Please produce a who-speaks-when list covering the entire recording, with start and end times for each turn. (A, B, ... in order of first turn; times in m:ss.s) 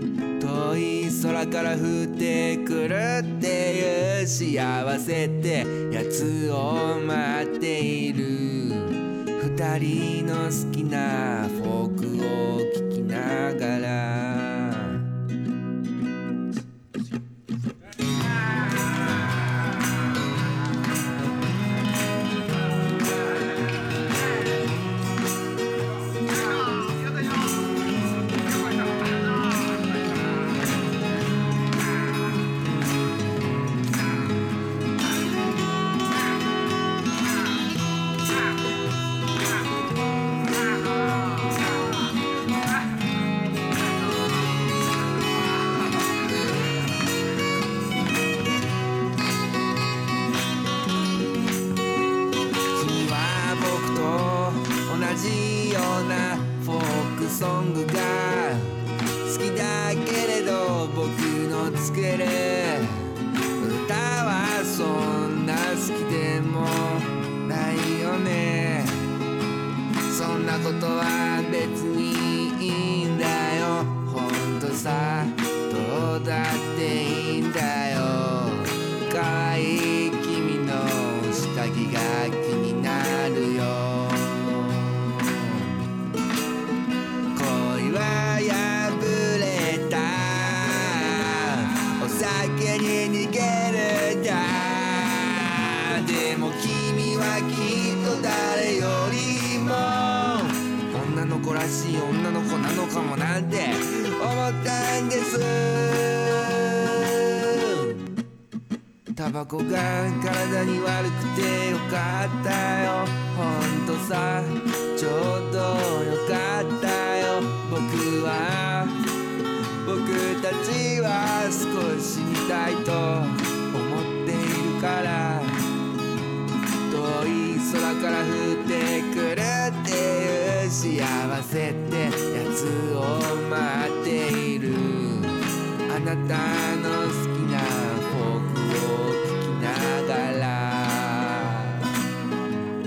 0:00.4-0:15.0 A
0:52.7-1:09.1 A
1:10.1-1:25.8 A
1:27.3-1:48.0 A
1:49.1-1:59.0 A
1:59.8-2:05.6 A
2:06.9-2:21.9 A